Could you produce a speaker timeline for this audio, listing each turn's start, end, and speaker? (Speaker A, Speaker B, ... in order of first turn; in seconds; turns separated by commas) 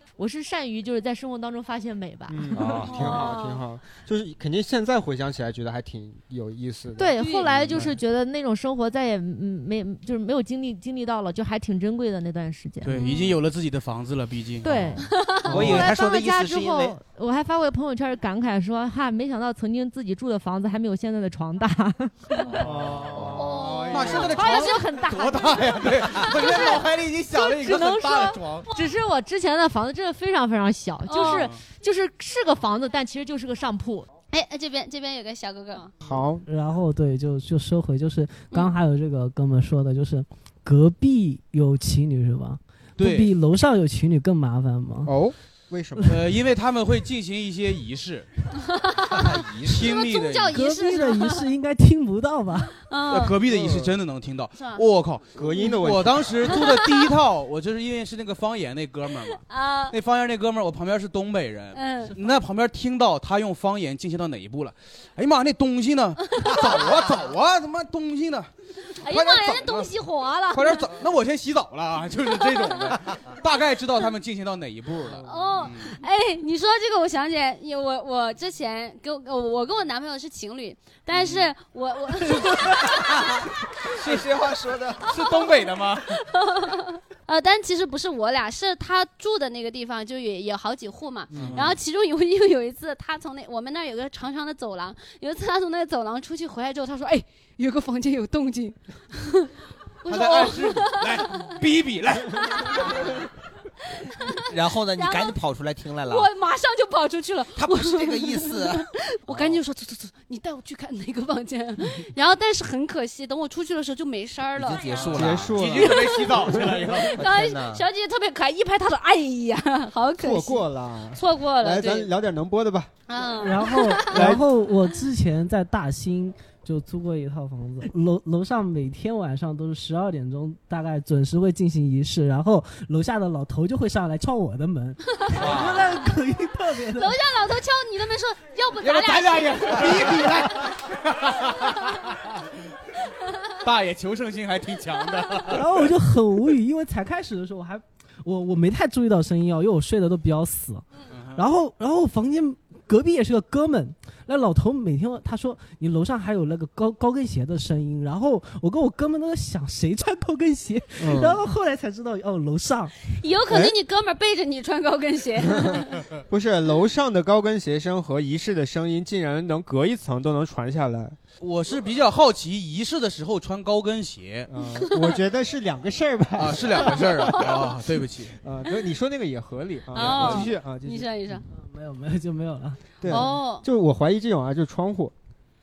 Speaker A: 0.2-3.1, Speaker B: 2.3-7.2, Speaker C: 2.6-3.2, Speaker D: 2.8-3.6, Speaker A: 7.0-13.3, Speaker D: 7.2-7.5, Speaker C: 12.8-14.9, Speaker D: 13.0-13.3, Speaker A: 14.6-22.6, Speaker D: 15.1-15.5, Speaker E: 15.5-17.0, Speaker C: 22.5-28.7, Speaker B: 22.6-24.4, Speaker D: 23.3-24.8, Speaker A: 24.0-34.1, Speaker D: 26.2-26.8, Speaker D: 31.1-31.5, Speaker C: 31.2-31.6, Speaker D: 34.3-35.9, Speaker B: 36.0-36.4, Speaker F: 36.4-45.1, Speaker C: 43.0-43.3, Speaker B: 45.0-46.2, Speaker C: 46.0-48.3, Speaker D: 48.9-51.4, Speaker E: 49.2-49.7, Speaker C: 49.5-50.5, Speaker F: 50.5-52.8, Speaker D: 52.9-53.3, Speaker C: 53.1-69.9, Speaker B: 53.5-53.9, Speaker D: 54.5-54.8, Speaker B: 55.3-56.4, Speaker D: 56.5-57.0, Speaker D: 59.4-60.0, Speaker D: 61.7-62.1, Speaker D: 66.3-66.8, Speaker D: 68.9-70.9, Speaker C: 70.5-75.9, Speaker D: 72.4-72.9, Speaker D: 75.2-83.3, Speaker C: 81.1-81.5, Speaker C: 82.2-83.0, Speaker C: 84.0-86.2, Speaker E: 84.0-85.0, Speaker D: 85.1-99.5, Speaker B: 91.3-91.6, Speaker C: 91.3-91.8, Speaker D: 100.0-101.5, Speaker C: 100.0-103.1, Speaker D: 102.4-103.2, Speaker E: 104.5-106.3, Speaker D: 104.9-105.3, Speaker D: 106.1-116.3, Speaker E: 107.5-109.6, Speaker E: 114.5-115.6, Speaker B: 115.1-117.0, Speaker C: 115.2-117.2, Speaker D: 117.0-122.1, Speaker E: 117.1-117.8, Speaker B: 120.2-122.9, Speaker D: 123.1-124.3, Speaker F: 123.4-137.2, Speaker B: 124.1-124.4, Speaker C: 135.3-136.0, Speaker D: 136.9-140.0, Speaker C: 138.8-142.1, Speaker F: 139.8-140.5, Speaker C: 143.6-145.7, Speaker F: 145.5-162.9, Speaker C: 151.1-151.4, Speaker B: 161.0-161.4, Speaker D: 163.1-165.9, Speaker B: 163.5-163.8, Speaker B: 165.7-171.2, Speaker C: 171.4-174.5, Speaker B: 174.5-177.4, Speaker C: 176.3-178.3, Speaker D: 176.9-177.7, Speaker B: 178.4-181.1, Speaker D: 179.9-181.4, Speaker C: 180.0-180.4, Speaker F: 181.5-182.8, Speaker B: 183.0-185.1, Speaker D: 183.1-183.6